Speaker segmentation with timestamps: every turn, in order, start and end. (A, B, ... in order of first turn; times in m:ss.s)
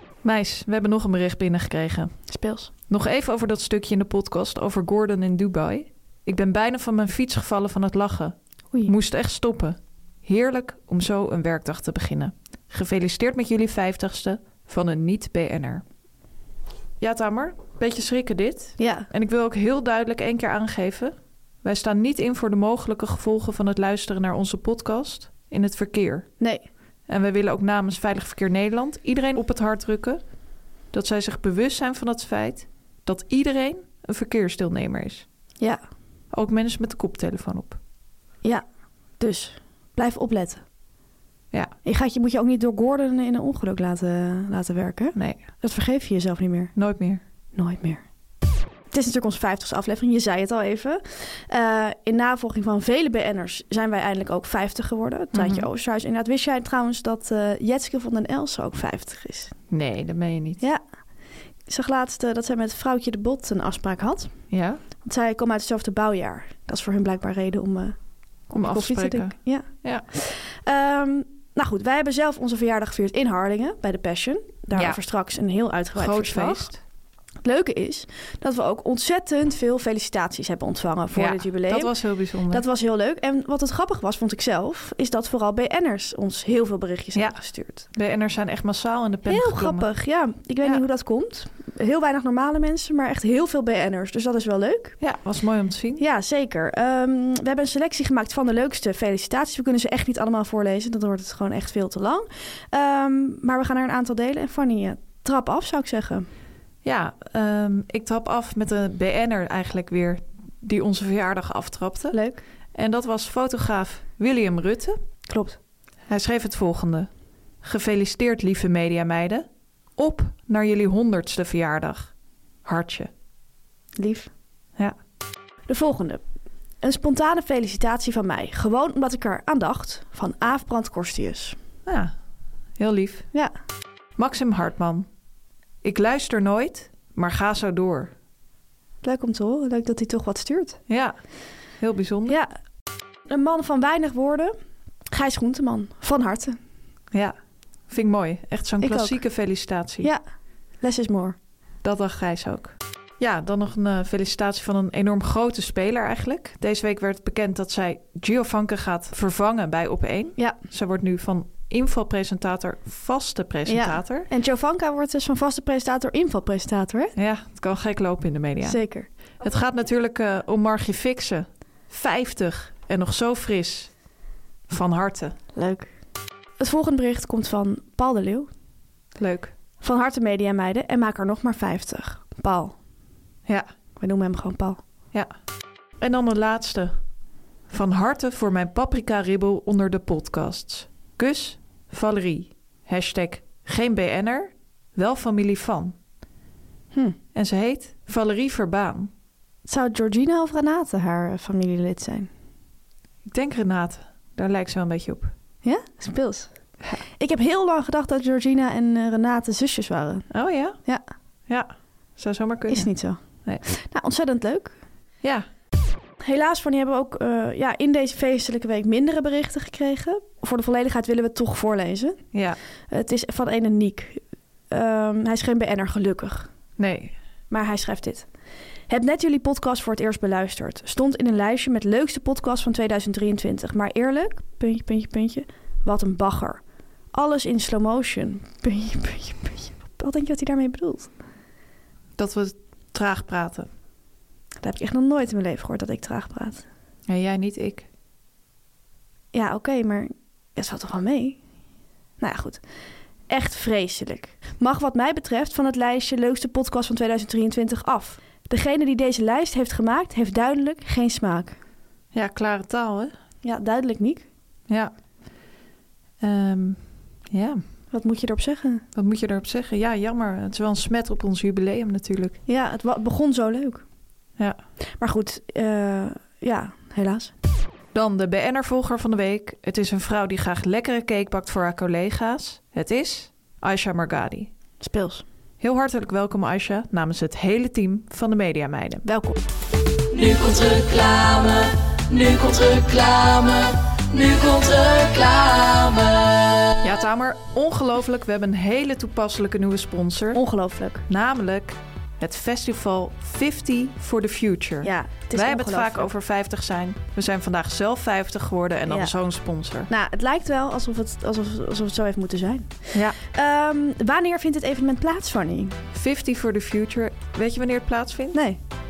0:00.2-0:02.1 A
0:02.3-0:02.7 B
0:02.9-0:15.8 A
0:17.0-0:26.3 A
0:18.8-0:19.1 B
0:26.4-0:26.6 B
0:27.1-0:30.2 A
0:30.9-0:35.2 A
0:36.3-0:37.8 A
0:39.2-0:40.6 B
0:41.8-0:46.7 B
0:45.1-0:45.4 A
0:46.8-0:47.2 A
0:47.5-0:48.0 B
0:48.9-0:59.5 B
0:55.3-0:55.6 A
0:59.7-1:00.6 A
1:01.7-1:04.3 B
1:04.5-1:04.8 A
1:05.0-1:08.0 B
1:08.5-1:10.0 A
1:08.5-1:16.7 B
1:14.7-1:15.0 A
1:15.9-1:16.8 A
1:17.4-1:21.9 B
1:21.1-1:22.6 A
1:22.5-1:27.8 B
1:27.2-1:29.9 A
1:29.3-1:35.0 B
1:35.0-1:36.0 A
1:36.0-1:46.3 B
1:46.8-1:52.2 A
1:52.1-1:52.4 B
1:52.7-1:55.0 A
1:55.3-1:55.6 B
1:56.1-1:57.1 A
1:57.6-1:59.4 A
2:00.0-2:02.1 A
2:02.6-2:03.1 A
2:04.0-2:04.3 B
2:05.7-2:06.2 B
2:06.8-2:11.6 B
2:11.8-2:12.1 A
2:12.8-2:13.3 A
2:14.2-2:15.0 A
2:15.8-2:18.1 A
2:19.0-2:20.8 B
2:20.9-2:21.2 A
2:21.8-2:22.4 A
2:22.3-2:22.5 B
2:23.3-2:24.5 B
2:25.1-2:26.6 B
2:27.9-2:30.1 A
2:28.8-2:29.2 B
2:30.8-2:31.4 B
2:31.8-2:44.3 A
2:43.7-2:47.1 B
2:47.2-2:48.8 A
2:48.6-2:49.1 B
2:49.4-2:53.9 A
2:54.7-2:55.3 A
2:55.5-2:55.9 B
2:56.6-2:58.5 B
2:59.2-2:59.5 A
2:59.8-3:02.8 B
3:04.0-3:04.8 B
3:06.0-3:07.0 A
3:07.7-3:16.0 A
3:17.3-3:19.1 A
3:19.7-3:22.3 B
3:23.3-3:25.3 A
3:25.6-3:26.5 B
3:27.2-3:30.2 B
3:30.3-3:30.8 A
3:31.5-3:32.9 A
3:32.7-3:34.8 B
3:36.2-3:42.2 B
3:42.3-3:42.6 A
3:42.9-3:46.5 B
3:46.8-3:47.1 A
3:47.5-3:48.3 B
3:48.9-3:56.6 B
3:57.1-4:01.1 B
4:02.2-4:03.7 A
4:04.6-4:06.6 B
4:07.1-4:07.8 A
4:09.3-4:11.4 B
4:12.2-4:12.6 B
4:13.3-4:21.6 B
4:22.1-4:23.1 A
4:23.4-4:24.3 B
4:26.2-4:26.8 A
4:27.3-4:27.6 A
4:27.9-4:28.8 B
4:28.9-4:32.4 A
4:32.5-4:33.8 B
4:35.0-4:37.3 B
4:37.9-4:44.5 A
4:44.8-4:45.2 B
4:45.6-4:49.0 A
4:49.0-4:49.4 B
4:50.1-4:56.7 C
4:56.8-5:00.4 A
5:00.3-5:01.0 B
5:01.1-5:09.9 A
5:04.8-5:06.1 B
5:08.9-5:09.1 B
5:09.9-5:15.7 B
5:15.9-5:18.4 A
5:18.3-5:18.6 B